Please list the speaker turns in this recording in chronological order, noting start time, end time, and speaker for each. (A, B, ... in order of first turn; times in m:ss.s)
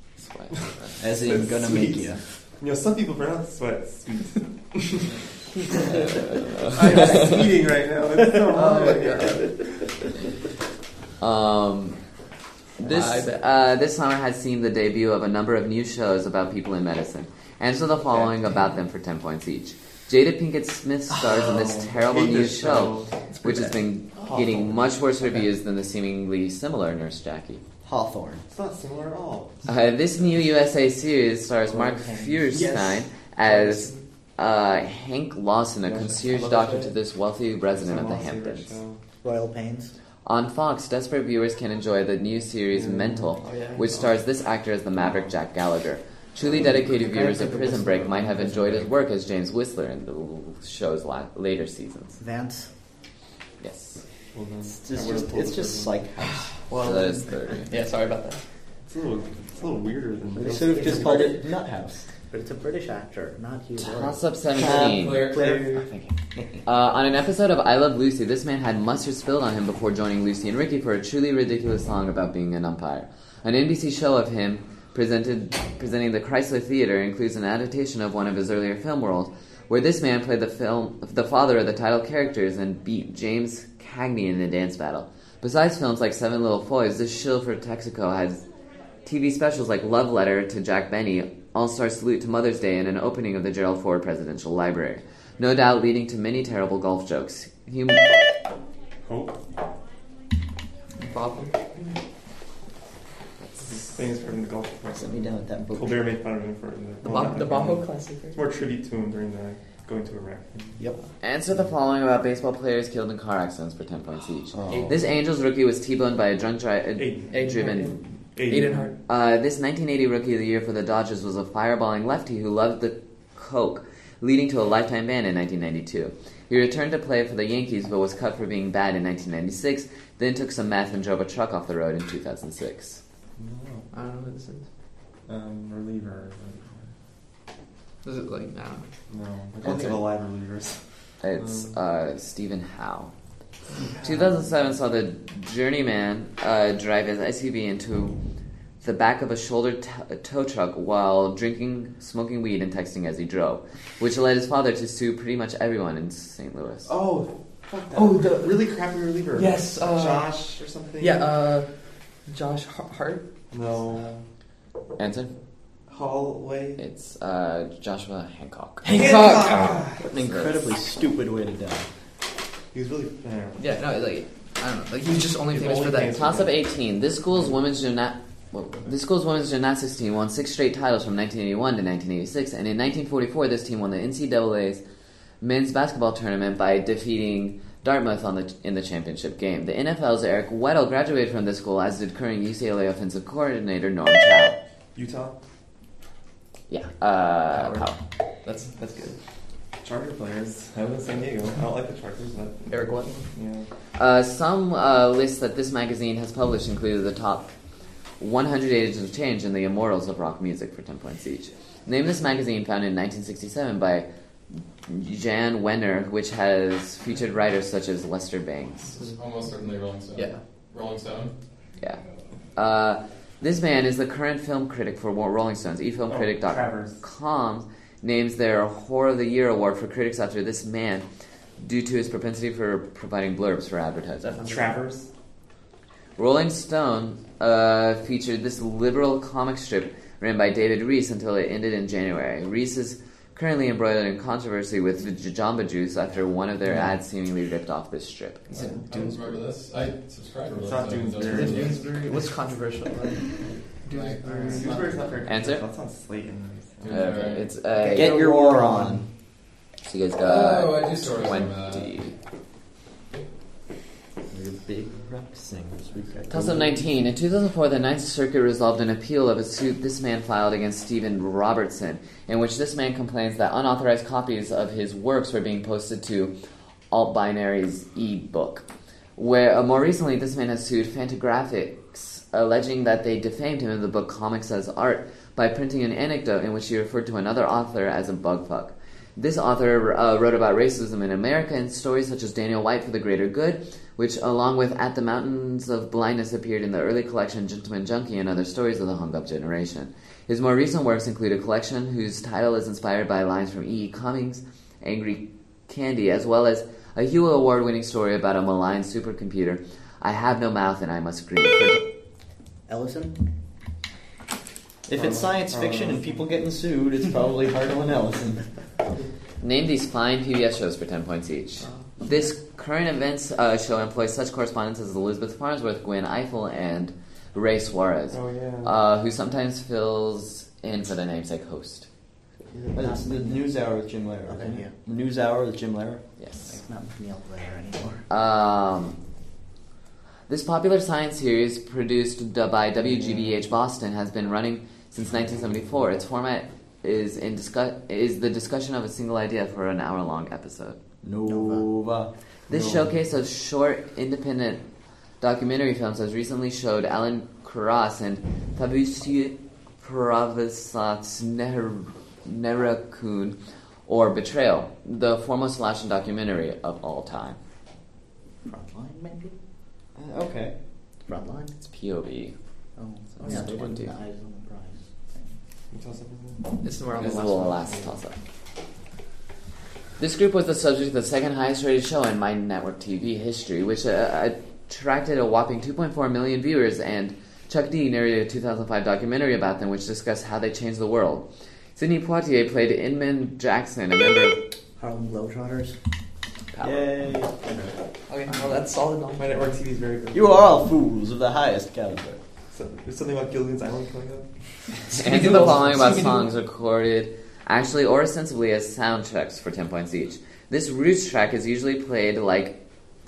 0:00.2-0:01.0 A
0:01.0-0:02.2 B
0:01.2-0:05.2 C
0:05.7-0:10.2 C
0:06.3-0:07.2 A
0:06.9-0:07.4 D
0:08.4-0:09.5 D
0:11.2-0:12.0 A
0:12.8-0:27.6 A
0:12.8-0:13.6 D
0:21.2-0:23.1 C
0:23.3-0:24.3 D
0:24.2-0:24.8 C
0:27.8-0:28.4 B
0:28.5-0:29.9 C
0:29.7-0:38.8 A
0:31.6-0:32.7 E
0:32.5-0:34.0 D
0:35.8-0:36.5 C
0:36.2-0:37.0 D
0:37.7-0:39.0 C
0:39.2-0:40.0 E
0:40.3-0:52.2 A
0:42.7-0:43.4 C
0:43.4-0:44.1 D
0:52.2-0:52.7 E
0:53.6-0:54.0 A
0:54.3-0:56.1 C
0:54.7-0:56.5 B
0:56.7-0:58.4 D
0:56.7-0:57.7 A
0:58.9-1:01.4 C
1:00.3-1:02.1 B
1:00.6-1:01.4 E
1:02.3-1:05.8 E
1:03.8-1:28.4 A
1:04.6-1:05.5 B
1:05.0-1:05.7 F
1:29.0-1:38.1 A
1:39.0-1:39.4 C
1:41.0-1:41.7 D
1:43.6-1:50.8 C
1:44.9-1:46.1 B
1:47.0-1:48.5 D
1:51.2-1:58.0 A
1:54.6-1:54.9 B
1:54.7-1:55.1 D
1:57.0-1:57.5 C
1:57.3-1:59.0 D
1:58.3-1:58.9 C
1:59.1-2:13.0 A
2:13.4-2:13.9 C
2:13.9-2:14.7 D
2:15.3-2:16.9 C
2:18.0-2:18.9 D
2:19.1-2:21.8 C
2:19.6-2:20.1 D
2:21.2-2:23.1 A
2:23.7-2:24.1 D
2:23.8-2:24.2 C
2:24.0-2:28.2 A
2:28.8-2:36.9 A
2:36.9-2:41.3 C
2:37.9-2:38.8 D
2:39.3-2:41.7 D
2:42.3-2:43.8 D
2:43.5-2:44.2 C
2:45.0-2:45.3 A
2:45.9-2:46.8 C
2:46.8-2:49.0 A
2:48.8-2:49.9 D
2:48.8-2:50.1 C
2:50.1-2:51.9 B
2:50.2-2:50.6 A
2:52.7-2:53.6 C
2:53.6-2:56.3 D
2:55.5-2:56.5 C
2:56.1-3:04.8 A
3:05.4-3:14.6 A
3:15.0-3:15.4 C
3:16.7-3:18.0 A
3:17.5-3:19.2 D
3:19.8-3:23.7 C
3:22.7-3:23.3 D
3:24.0-3:27.5 A
3:28.2-3:34.1 A
3:34.9-3:38.9 A
3:39.0-3:41.3 F
3:40.1-3:40.4 D
3:42.6-3:51.1 A
3:46.1-3:47.0 C
3:51.6-3:54.4 A
3:54.2-3:54.8 D
3:54.4-3:55.1 C
3:56.2-4:08.6 A
4:08.5-4:09.3 D
4:08.5-4:08.9 C
4:08.9-4:11.9 F
4:10.5-4:12.2 C
4:11.3-4:15.1 D
4:13.9-4:14.8 F
4:14.3-4:17.1 C
4:15.2-4:15.6 A
4:16.8-4:17.5 F
4:16.9-4:18.3 A
4:17.9-4:19.1 B
4:18.2-4:18.8 E
4:19.8-4:22.1 A
4:20.2-4:22.1 F
4:24.3-4:26.8 B
4:26.3-4:36.4 A
4:36.9-5:11.8 A
5:12.7-5:13.2 E
5:14.9-5:18.5 B
5:14.9-5:16.2 C
5:19.4-5:31.9 A
5:21.6-5:22.2 D
5:28.1-5:28.8 C
5:32.5-5:33.5 E
5:32.7-5:36.0 B
5:34.3-5:34.8 E
5:36.2-5:36.6 A
5:36.5-5:38.0 E
5:38.1-5:39.0 A
5:40.3-5:50.8 A
5:43.0-5:43.4 C
5:51.0-5:52.1 B
5:51.2-5:51.7 E
5:52.5-5:54.6 A
5:52.5-5:52.9 C
5:55.2-6:07.4 A
6:08.4-6:09.4 E
6:10.0-6:10.6 B
6:11.0-6:11.6 E
6:11.6-6:12.4 A
6:12.8-6:15.4 E
6:13.2-6:14.0 A
6:15.7-6:16.6 C
6:16.6-6:17.9 D
6:17.0-6:18.2 A
6:20.0-6:34.4 A
6:34.8-6:35.8 E
6:36.5-6:36.9 A
6:36.6-6:37.3 B
6:37.4-6:37.8 E
6:38.1-6:39.8 D
6:39.3-6:40.5 C
6:40.1-6:42.2 B
6:42.5-6:44.3 C
6:44.9-6:52.6 A
6:44.9-6:46.3 D